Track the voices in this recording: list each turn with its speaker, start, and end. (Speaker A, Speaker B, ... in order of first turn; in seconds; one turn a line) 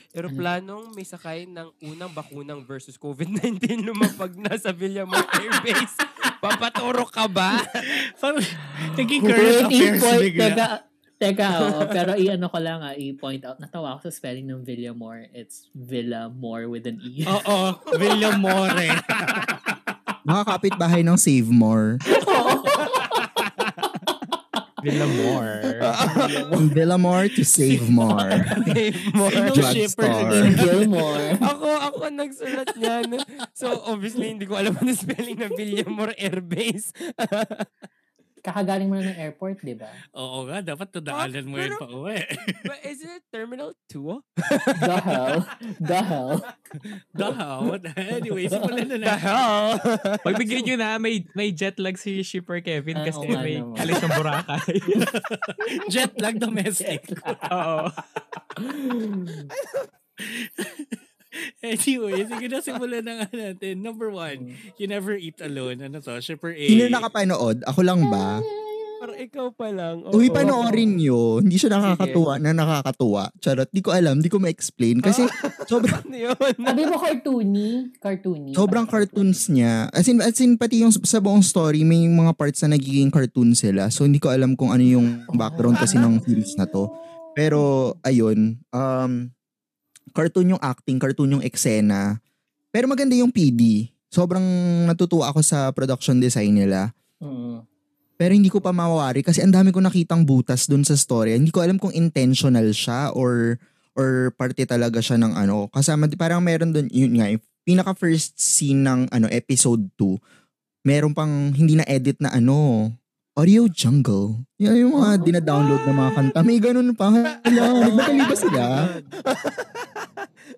Speaker A: 0.1-7.9
Speaker B: 7.8-10.7
Speaker C: 8.8-17.4
Speaker B: 17.3-19.7
Speaker A: 17.9-19.5
Speaker D: 20.3-22.0
Speaker C: 22.1-23.3
Speaker A: 22.4-23.1
Speaker E: 24.8-25.9
Speaker A: 25.8-26.6
Speaker C: 26.0-26.6
Speaker D: 26.5-28.5
Speaker B: 27.7-28.3
Speaker A: 28.1-29.8
Speaker B: 29.3-30.8
Speaker D: 29.5-30.6
Speaker C: 30.3-31.5
Speaker A: 31.4-37.7
Speaker C: 38.4-40.0
Speaker B: 40.2-42.6
Speaker A: 41.1-41.8
Speaker A: 42.6-45.4
Speaker C: 44.8-46.5
Speaker B: 47.1-49.3
Speaker A: 49.0-50.7
Speaker E: 50.2-55.1
Speaker C: 53.0-54.0
Speaker B: 55.0-57.5
Speaker C: 55.6-55.9
Speaker C: 56.8-57.5
Speaker E: 57.5-58.1
Speaker C: 58.5-59.5
Speaker A: 59.6-59.9
Speaker B: 60.2-61.0
Speaker B: 61.6-67.1
Speaker C: 64.3-64.6
Speaker D: 66.7-68.4
Speaker C: 68.1-69.2
Speaker A: 69.0-70.9
Speaker D: 70.1-76.0
Speaker C: 70.3-70.9
Speaker A: 71.8-72.2
Speaker A: 75.0-76.8
Speaker C: 76.7-79.4
Speaker D: 78.5-89.3
Speaker C: 85.3-87.9
Speaker A: 85.7-86.3
Speaker D: 90.2-92.1
Speaker D: 92.7-96.9
Speaker C: 97.2-97.6
Speaker D: 98.2-103.4
Speaker D: 104.0-110.2
Speaker D: 110.9-118.8
Speaker C: 115.0-115.3
Speaker A: 115.2-115.8
Speaker A: 117.5-120.2
Speaker C: 117.6-119.1